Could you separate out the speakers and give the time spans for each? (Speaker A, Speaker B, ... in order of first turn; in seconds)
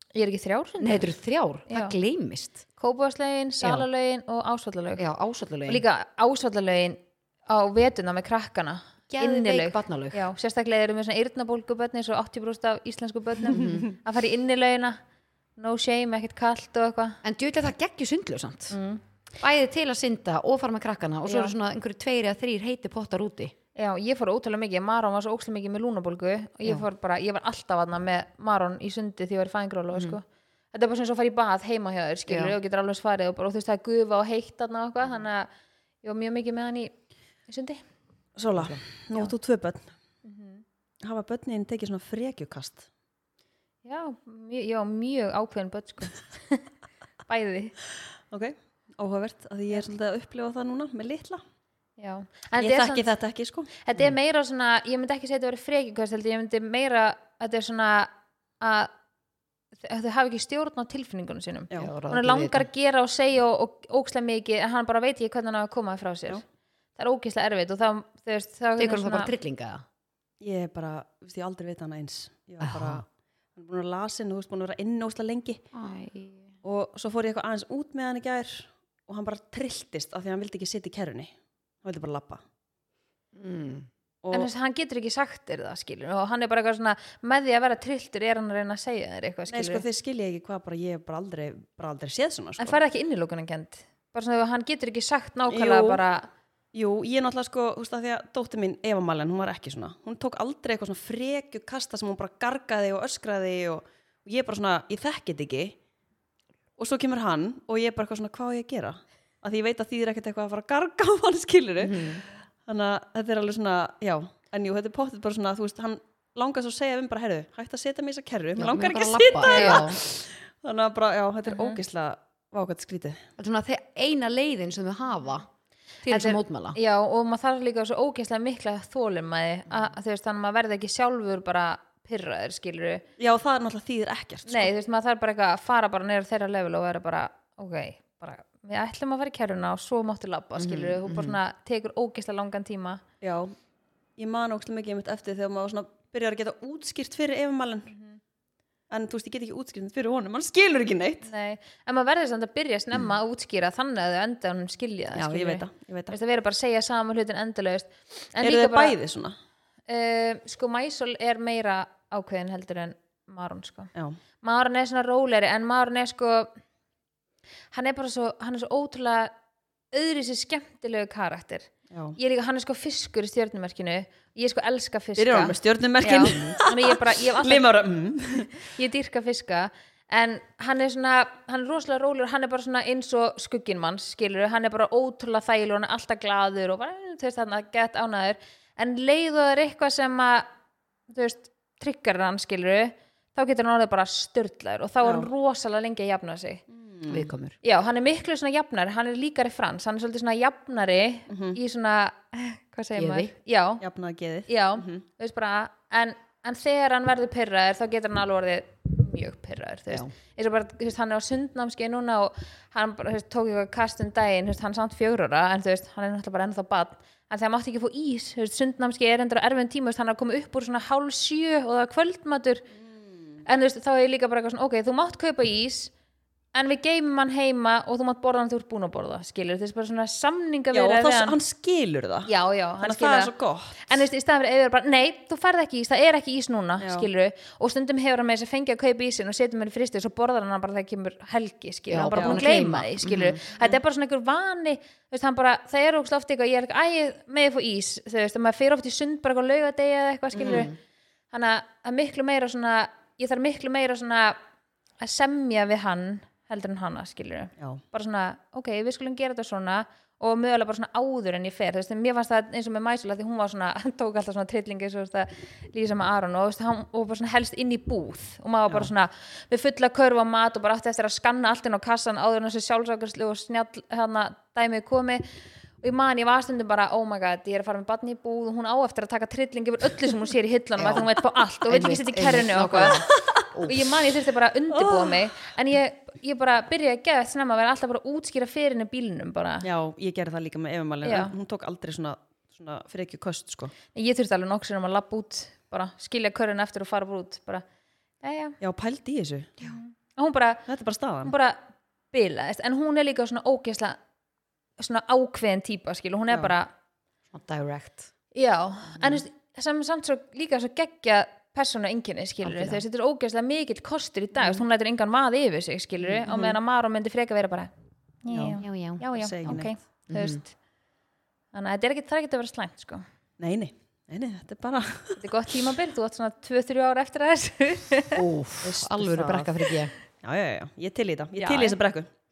Speaker A: 0.1-1.1, 1.7-1.9, 2.8-5.0, 5.7-15.0, 15.6-17.2, 18.7-19.0, 21.2-21.5, 23.8-35.5, 36.0-36.9, 37.5-37.8, 40.2-40.6, 43.8-46.7, 47.3-47.7, 52.0-53.1, 53.8-58.9, 59.8-66.4, 67.0-69.3, 84.3-89.8, 92.6-96.3, 119.5-119.8, 121.5-121.8, 126.1-133.0, 134.5-143.0, 147.9-148.2, 151.2-158.9, 159.9-166.5, 167.7-169.3, 169.9-177.7, 178.6-190.5, 191.1-196.6, 197.6-203.8, 204.5-222.7, 223.4-225.9, 226.5-231.4, 232.3-233.3, 233.8-250.7, 251.3-254.4, 255.0-275.2, 275.8-283.0, 283.6-289.7, 291.0-291.3, 293.9-297.6, 298.2-298.6, 299.6-300.6, 301.2-304.0, 304.8-306.7, 308.3-317.7, 318.2-320.5, 321.5-323.0, 325.2-328.2, 331.4-331.8
Speaker B: 0.8-2.6, 3.6-3.9, 5.0-5.8, 9.1-10.3, 13.5-13.8, 17.2-18.8, 19.4-23.5, 32.3-32.5, 61.7-62.7, 68.8-69.8, 72.6-73.0, 75.7-76.5, 83.3-83.9, 111.8-112.2, 118.6-120.0, 123.4-125.5, 126.0-126.8, 140.6-141.4, 197.1-197.6, 202.9-203.3, 241.9-243.4, 250.4-250.8, 280.8-281.1, 281.6-283.9, 307.3-308.1, 312.4-312.8, 318.6-320.4, 328.1-329.9
Speaker C: 38.4-39.9, 41.0-42.8, 48.3-51.4, 52.6-53.7, 70.4-75.6, 76.6-81.3, 81.8-82.4, 84.2-84.5, 89.5-92.8, 95.5-96.0, 96.7-105.7, 106.8-123.2, 133.2-134.7, 143.2-143.5, 144.2-147.9, 148.9-151.3, 155.1-156.2, 158.4-159.3, 171.9-172.2, 175.2-178.6, 195.0-195.3, 196.7-197.3, 201.3-201.6, 203.8-205.0, 230.7-232.3, 232.8-234.0, 236.8-237.1, 242.1-242.4, 250.4-250.7, 283.1-283.4, 284.7-285.2, 289.6-293.7, 298.6-299.5, 300.7-301.3, 316.3-316.5, 318.3-318.6, 319.1-319.7, 323.4-325.2, 328.6-329.6, 330.2-332.1